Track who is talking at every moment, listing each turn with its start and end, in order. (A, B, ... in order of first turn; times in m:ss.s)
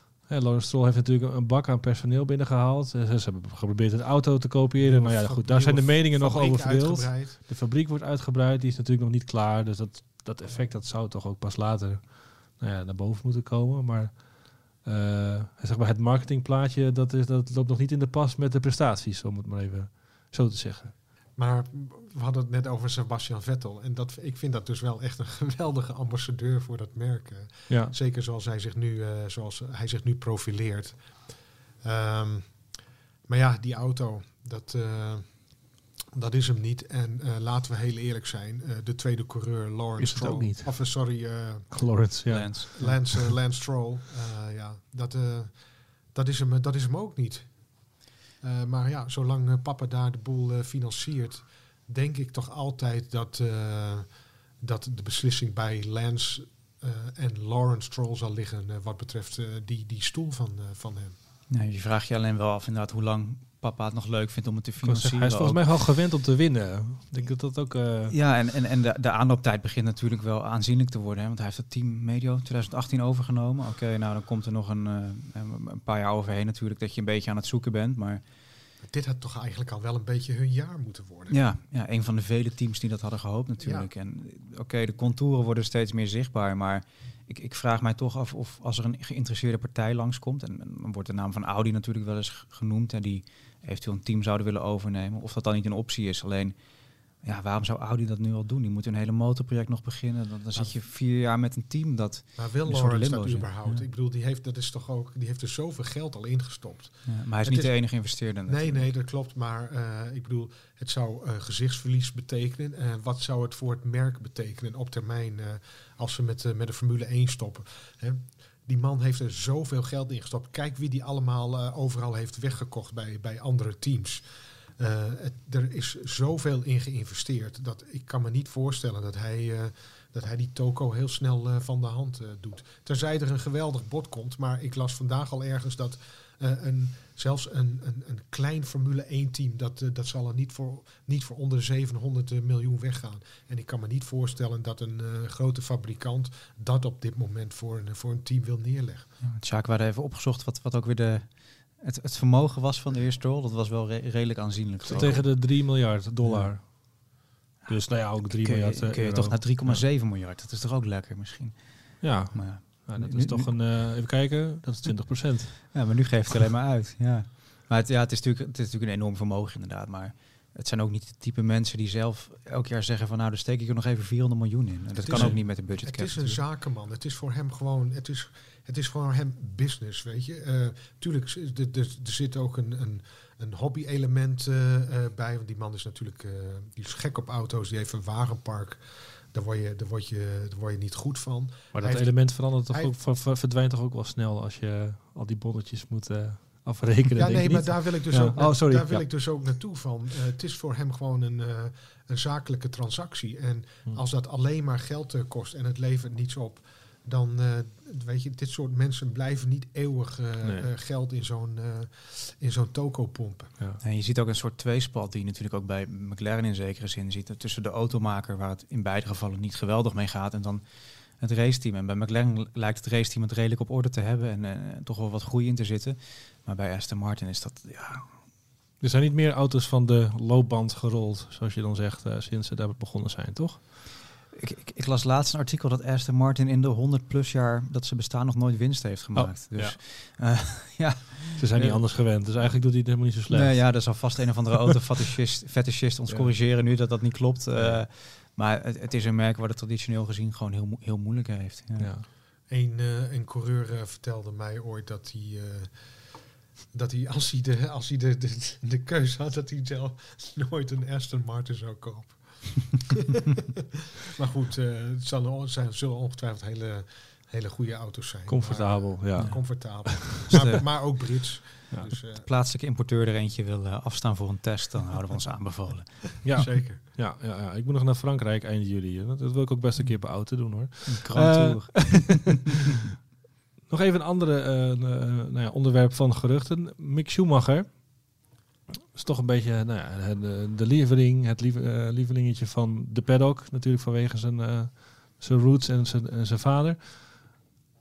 0:00.3-0:20.9 A
0:04.8-0:07.4 B
0:21.4-0:31.3 B
0:27.7-0:27.9 A
0:31.8-0:32.7 B
0:33.3-0:35.6 B
0:36.1-0:42.0 B
0:40.0-0:41.0 A
0:41.7-0:43.3 A
0:42.3-0:42.9 C
0:42.8-1:01.2 B
1:01.5-1:05.7 C
1:04.8-1:08.1 A
1:08.1-1:18.2 C
1:18.8-1:21.4 B
1:21.3-1:43.8 C
1:23.6-1:23.9 B
1:42.4-2:04.2 B
1:47.0-1:48.9 C
2:04.8-2:29.1 B
2:29.2-2:36.6 C
2:34.8-2:35.2 B
2:34.9-2:37.1 A
2:37.6-2:43.6 C
2:37.7-2:39.8 A
2:42.0-2:45.7 A
2:45.7-2:56.4 C
2:55.0-3:12.9 B
2:55.1-2:55.4 A
3:11.7-3:19.4 A
3:17.1-3:33.5 B
3:30.4-3:30.7 A
3:33.8-3:48.1 C
3:48.8-3:53.6 A
3:54.3-4:01.9 C
3:59.1-3:59.8 A
4:01.4-4:04.1 A
4:03.3-4:11.9 C
4:06.1-4:06.4 A
4:07.6-4:07.8 A
4:11.8-4:12.0 A
4:12.5-4:22.9 B
4:24.0-4:32.3 B
4:28.3-4:30.4 A
4:29.2-4:30.6 C
4:32.2-4:36.2 C
4:36.2-4:42.3 A
4:36.3-4:36.8 B
4:40.8-4:42.4 C
4:43.7-4:48.1 A
4:48.9-4:57.3 A